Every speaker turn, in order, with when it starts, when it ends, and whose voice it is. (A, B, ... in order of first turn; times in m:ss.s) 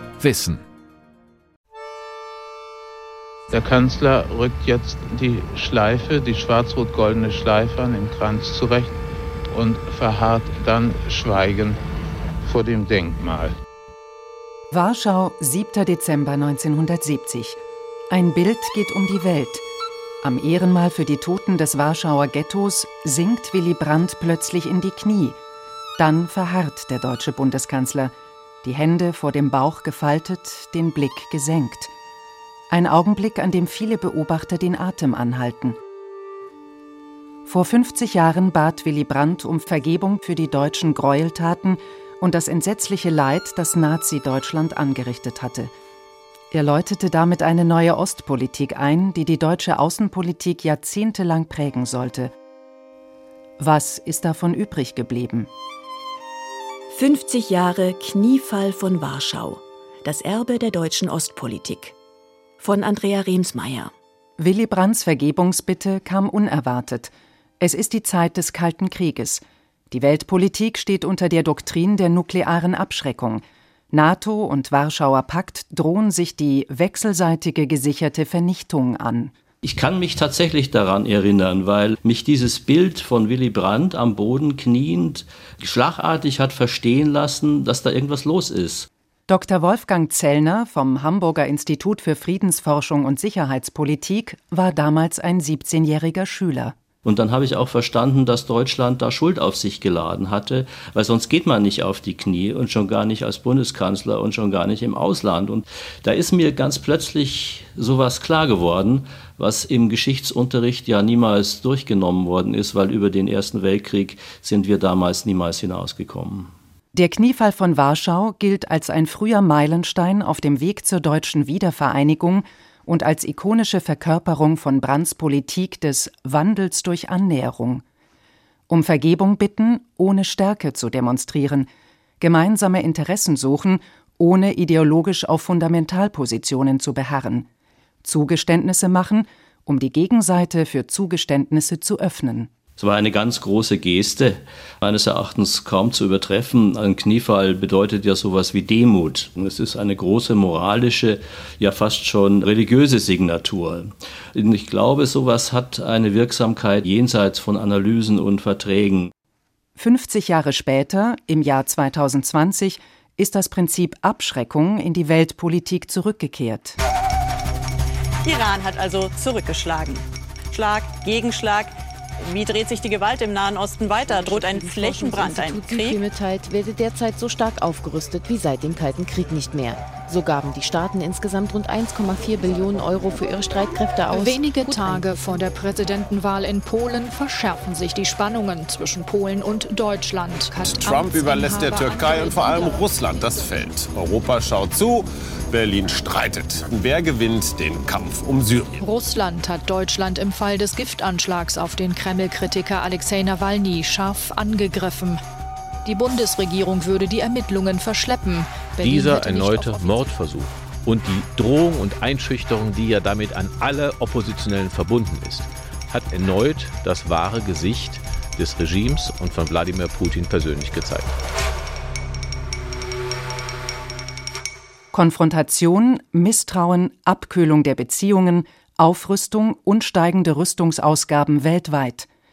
0:03.5-0:08.9 A
0:09.5-0:11.8 A
0:12.4-0:13.5 A
0:14.7-0:17.6 B
0:18.1-0:19.6 B
0:20.2-0:25.4 B
0:26.0-0:31.9 B
0:32.7-0:35.8 B
0:37.4-0:45.7 B
0:46.5-0:52.3 B
0:53.6-0:55.5 B
0:56.9-1:01.9 C
1:02.6-1:03.9 C
1:04.4-1:19.3 B
1:19.6-1:28.9 D
1:29.3-1:36.8 B
1:37.0-1:56.5 D
1:56.9-2:07.8 B
2:08.7-2:11.7 B
2:12.2-2:17.5 B
2:18.0-2:22.5 B
2:22.8-2:39.1 D
2:39.8-2:46.8 B
2:48.2-2:56.0 E
2:54.0-3:05.1 F
3:04.1-3:13.3 G
3:10.6-3:18.8 H
3:18.8-3:25.2 G
3:25.8-3:30.1 G
3:28.8-3:41.1 I
3:44.9-3:52.1 B